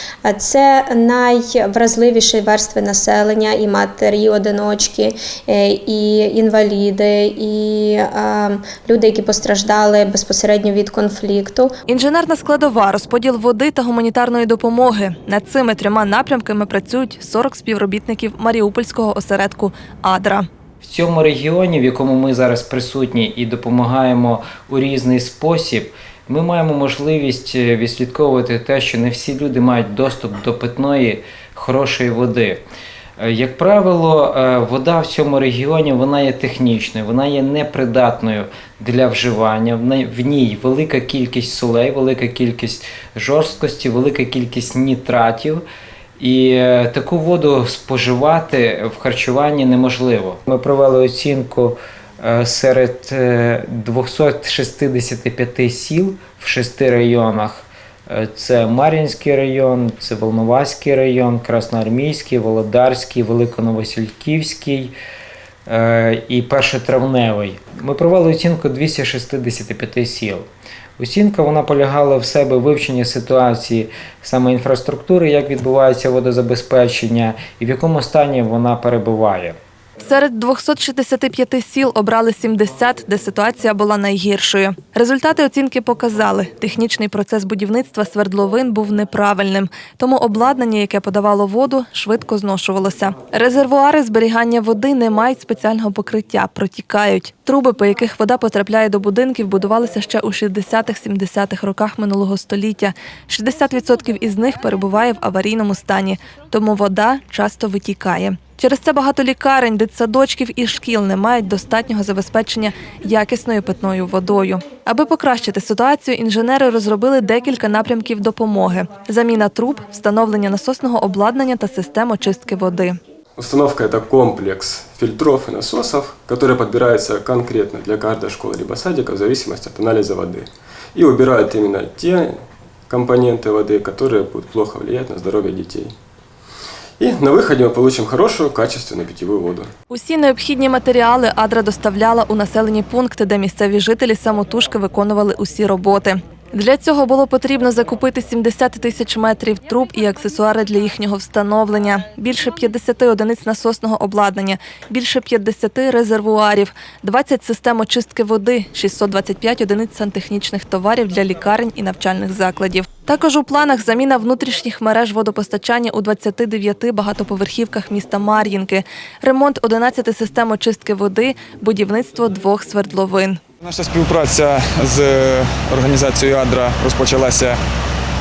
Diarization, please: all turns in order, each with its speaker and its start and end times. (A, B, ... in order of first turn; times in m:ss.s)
0:00.2-0:11.7 A
0:11.9-0:20.5 B
0:20.8-0:32.6 C
0:33.2-0:45.6 C
0:46.2-1:04.9 C
1:05.7-1:10.4 C
1:11.0-1:19.6 C
1:20.0-2:03.0 B
2:03.4-2:15.9 D
2:17.0-2:19.7 D
2:19.9-2:53.4 B
2:53.6-2:57.6 E